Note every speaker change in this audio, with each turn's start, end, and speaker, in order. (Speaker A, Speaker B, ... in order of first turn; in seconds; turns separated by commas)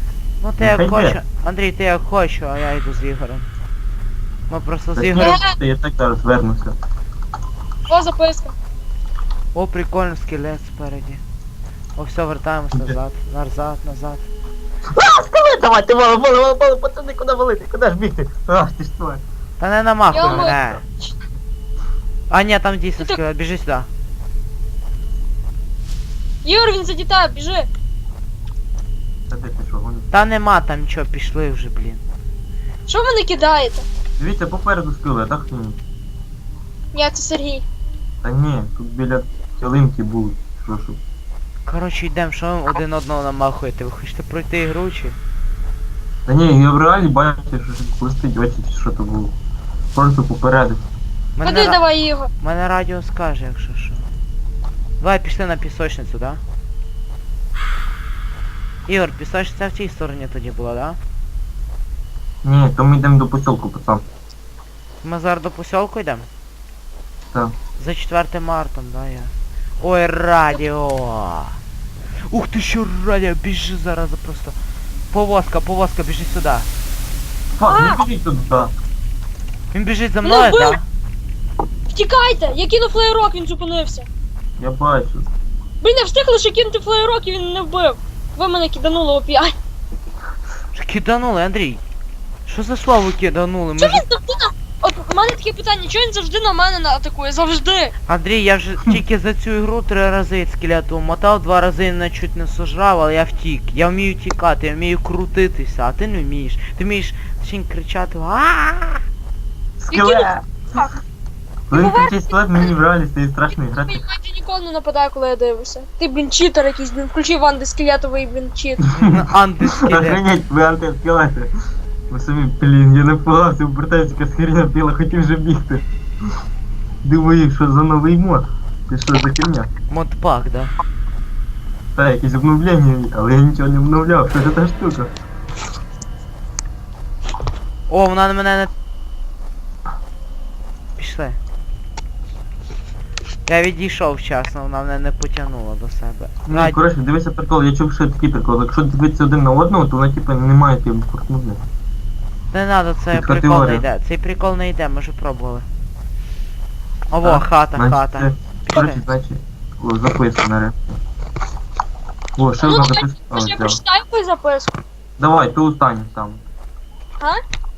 Speaker A: 0.4-3.5, Speaker B: 0.6-1.2, Speaker A: 4.5-5.3, Speaker B: 5.0-6.8, Speaker C: 5.2-5.5, Speaker C: 7.9-8.5, Speaker A: 9.5-11.2, Speaker A: 11.9-14.3, Speaker B: 14.9-19.2, Speaker A: 19.6-20.8, Speaker C: 20.1-21.1, Speaker B: 20.2-20.8, Speaker A: 22.3-23.9, Speaker C: 26.4-27.7, Speaker B: 29.3-30.1, Speaker A: 30.1-32.0, Speaker C: 32.9-33.9, Speaker B: 34.2-35.8, Speaker C: 36.9-37.6, Speaker B: 38.2-41.0, Speaker A: 41.6-45.2, Speaker B: 46.3-49.3, Speaker B: 49.9-50.8, Speaker A: 51.4-51.8, Speaker C: 51.4-52.3, Speaker A: 52.4-54.0, Speaker A: 55.0-56.4, Speaker A: 58.9-61.0, Speaker B: 62.4-64.0, Speaker A: 65.0-66.3, Speaker A: 67.8-71.5, Speaker A: 72.3-74.5, Speaker A: 75.1-76.7, Speaker B: 77.5-78.7, Speaker C: 77.7-78.0, Speaker A: 79.7-80.8, Speaker C: 80.2-80.8, Speaker C: 81.9-84.0, Speaker B: 84.6-85.2, Speaker C: 85.8-89.5, Speaker A: 90.7-91.8, Speaker A: 92.5-94.0, Speaker C: 93.8-97.9, Speaker A: 98.1-109.0, Speaker B: 109.8-110.6, Speaker C: 109.9-110.9, Speaker B: 111.7-114.0, Speaker C: 111.7-112.1, Speaker C: 113.9-118.8, Speaker A: 119.0-120.2, Speaker B: 119.9-121.5, Speaker B: 122.1-125.8, Speaker B: 127.0-129.7, Speaker A: 129.9-130.7, Speaker B: 131.9-135.1, Speaker A: 137.9-138.7, Speaker A: 141.0-141.4, Speaker A: 143.4-146.8, Speaker B: 146.5-151.6, Speaker A: 152.5-155.7, Speaker B: 153.1-153.8, Speaker A: 157.1-159.0, Speaker B: 157.2-161.0, Speaker B: 162.3-163.8, Speaker C: 162.6-164.8, Speaker B: 165.2-166.4